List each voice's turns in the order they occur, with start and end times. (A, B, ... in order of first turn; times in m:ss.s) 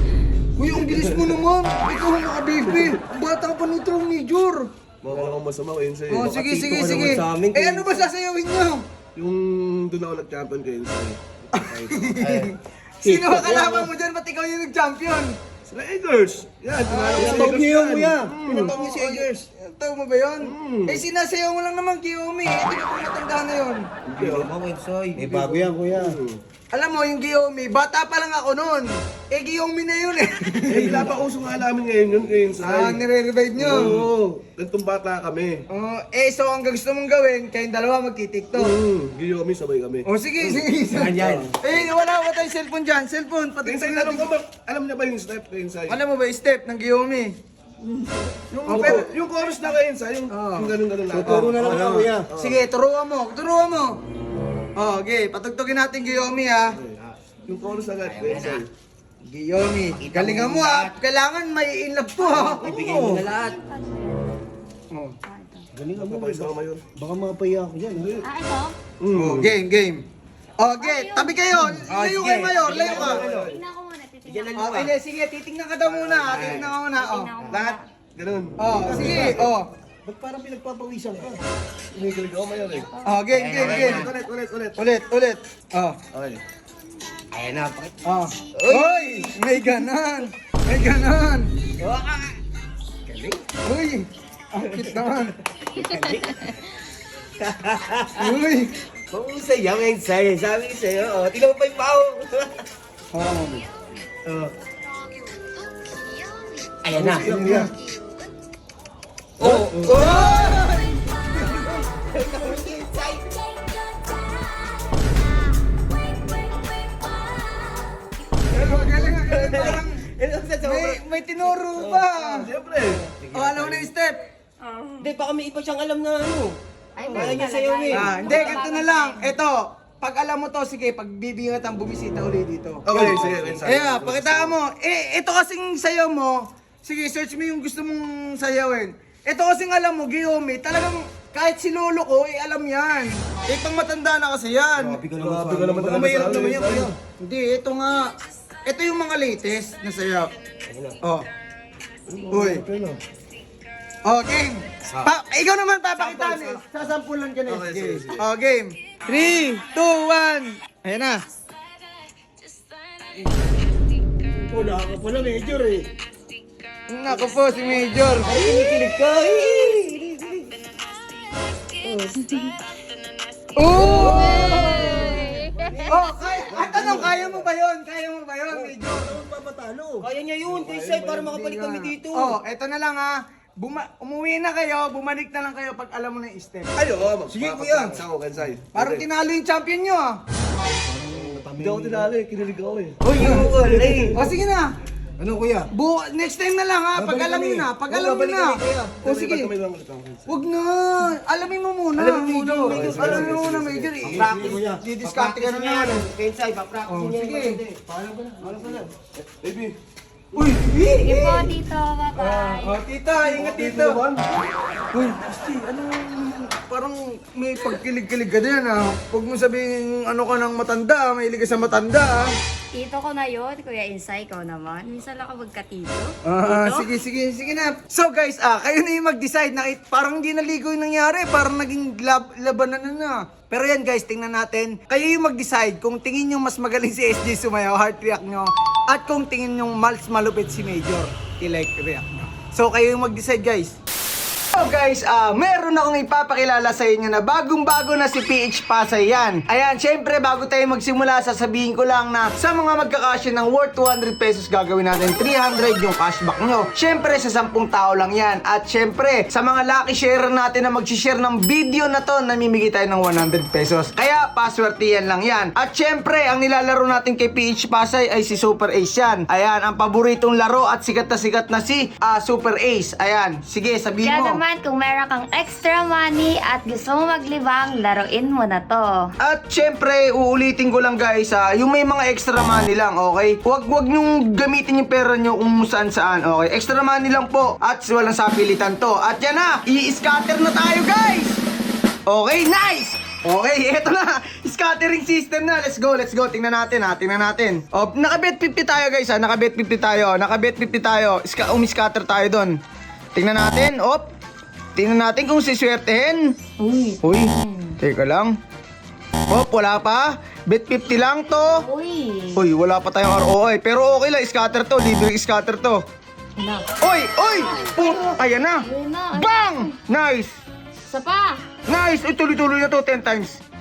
0:00.6-0:04.7 A
0:00.7-0:01.4 B
0:02.7-0:03.0 B
0:05.0-0:06.4 B
0:05.1-0:05.4 C
0:06.1-0:08.9 A
0:06.2-0:08.1 C
0:09.2-0:12.2 B
0:11.5-0:15.4 A
0:12.2-0:12.5 C
0:13.0-0:13.9 D
0:13.5-0:13.8 B
0:15.7-0:18.8 B
0:16.9-0:17.6 A
0:17.2-0:19.3 D
0:18.5-0:23.9 A
0:20.4-0:21.0 B
0:24.1-0:24.5 B
0:24.2-0:25.6 C
0:25.2-0:26.2 D
0:26.0-0:26.4 B
0:26.7-0:31.1 A
0:30.7-0:33.0 B
0:32.6-0:34.1 A
0:33.6-0:35.6 B
0:35.7-0:38.7 A
0:38.5-0:41.5 B
0:40.1-0:44.3 A
0:40.9-0:41.6 C
0:43.6-0:46.0 B
0:45.9-0:47.4 A
0:48.5-0:52.6 B
0:48.6-0:49.1 A
0:50.3-0:51.6 A
0:51.1-0:52.3 D
0:52.4-0:54.0 A
0:54.8-0:56.8 A
0:56.7-0:58.7 B
0:58.0-0:58.6 C
0:59.2-1:03.2 A
1:00.0-1:00.9 C
1:02.2-1:04.4 E
1:02.3-1:03.6 C
1:05.2-1:05.7 E
1:05.7-1:08.1 D
1:06.0-1:06.8 B
1:08.0-1:08.3 B
1:08.2-1:08.8 E
1:09.0-1:09.6 B
1:09.2-1:10.0 A
1:10.6-1:13.2 A
1:10.8-1:11.4 E
1:11.6-1:13.5 C
1:12.5-1:12.8 E
1:12.8-1:13.6 B
1:13.4-1:14.8 E
1:14.2-1:15.0 C
1:14.6-1:17.4 A
1:15.8-1:16.5 B
1:16.2-1:16.7 C
1:16.7-1:17.8 E
1:17.4-1:17.8 C
1:18.2-1:19.5 B
1:18.6-1:19.7 A
1:18.7-1:19.5 D
1:20.0-1:21.4 D
1:21.9-1:22.9 B
1:23.0-1:24.1 A
1:23.3-1:24.2 C
1:23.5-1:24.9 B
1:24.8-1:26.0 A
1:26.1-1:26.4 B
1:27.3-1:28.0 C
1:28.0-1:31.5 A
1:28.6-1:29.3 C
1:31.8-1:32.4 C
1:33.1-1:33.4 C
1:33.6-1:35.4 A
1:34.7-1:35.1 C
1:35.8-1:36.5 C
1:37.4-1:38.4 C
1:38.2-1:38.7 A
1:39.1-1:42.6 C
1:43.1-1:43.6 A
1:44.3-1:44.5 C
1:46.8-1:47.4 C
1:47.1-1:47.7 A
1:47.2-1:47.6 B
1:47.3-1:47.6 D
1:49.4-1:50.6 C
1:49.7-1:51.6 A
1:51.9-1:53.3 C
1:58.5-2:00.0 A
1:58.5-2:02.2 C
2:00.6-2:02.5 A
2:02.2-2:03.1 B
2:02.9-2:03.9 C
2:03.3-2:04.2 A
2:04.7-2:05.1 E
2:05.0-2:08.2 C
2:07.0-2:09.3 E
2:07.1-2:07.4 B
2:07.9-2:12.9 A
2:12.9-2:14.6 B
2:13.0-2:13.6 C
2:13.6-2:25.1 A
2:24.8-2:26.9 D
2:25.1-2:26.9 B
2:27.2-2:28.1 A
2:28.6-2:30.3 A
2:30.7-2:31.0 C
2:31.0-2:31.3 A
2:32.1-2:33.0 B
2:32.3-2:32.6 A
2:34.1-2:41.2 A
2:37.5-2:38.2 B
2:44.5-2:45.9 D
2:46.9-2:48.3 A
2:48.2-2:50.6 C
2:51.8-2:52.2 C
2:53.6-2:55.3 A
2:53.8-2:55.5 C
2:54.4-2:55.5 E
2:55.4-2:57.2 D
2:55.8-2:59.2 A
2:56.5-2:57.2 B
2:58.5-3:00.1 D
3:00.0-3:02.4 C
3:00.4-3:01.4 B
3:01.2-3:08.0 A
3:06.8-3:09.1 B
3:07.3-3:08.0 C
3:08.7-3:10.2 A
3:10.7-3:12.1 D
3:11.1-3:14.2 B
3:13.0-3:14.2 C
3:13.2-3:13.5 A
3:14.1-3:14.7 A
3:15.2-3:15.7 C
3:15.7-3:19.5 A
3:17.0-3:19.0 C
3:19.0-3:20.4 B
3:20.3-3:26.1 A
3:22.0-3:23.5 C
3:22.6-3:24.5 B
3:24.0-3:24.8 D
3:24.1-3:28.8 C
3:26.9-3:27.6 A
3:27.9-3:28.8 D
3:29.4-3:29.7 B
3:30.4-3:31.5 A
3:31.0-3:32.8 E
3:32.2-3:34.0 A
3:33.2-3:34.5 B
3:34.9-3:42.3 A
3:42.7-3:46.9 E
3:46.3-4:03.8 A
4:04.5-4:34.4 A
4:34.0-4:39.1 E
4:39.2-4:51.4 A
4:52.1-5:02.6 A
5:03.2-5:04.1 A
5:04.8-5:06.4 A
5:06.6-5:07.8 E
5:07.0-5:08.3 A
5:09.3-5:11.6 A
5:11.4-5:12.4 E
5:12.4-5:15.8 A
5:16.4-5:19.7 E
5:16.8-5:20.4 A
5:20.9-5:21.4 E
5:21.7-5:23.4 A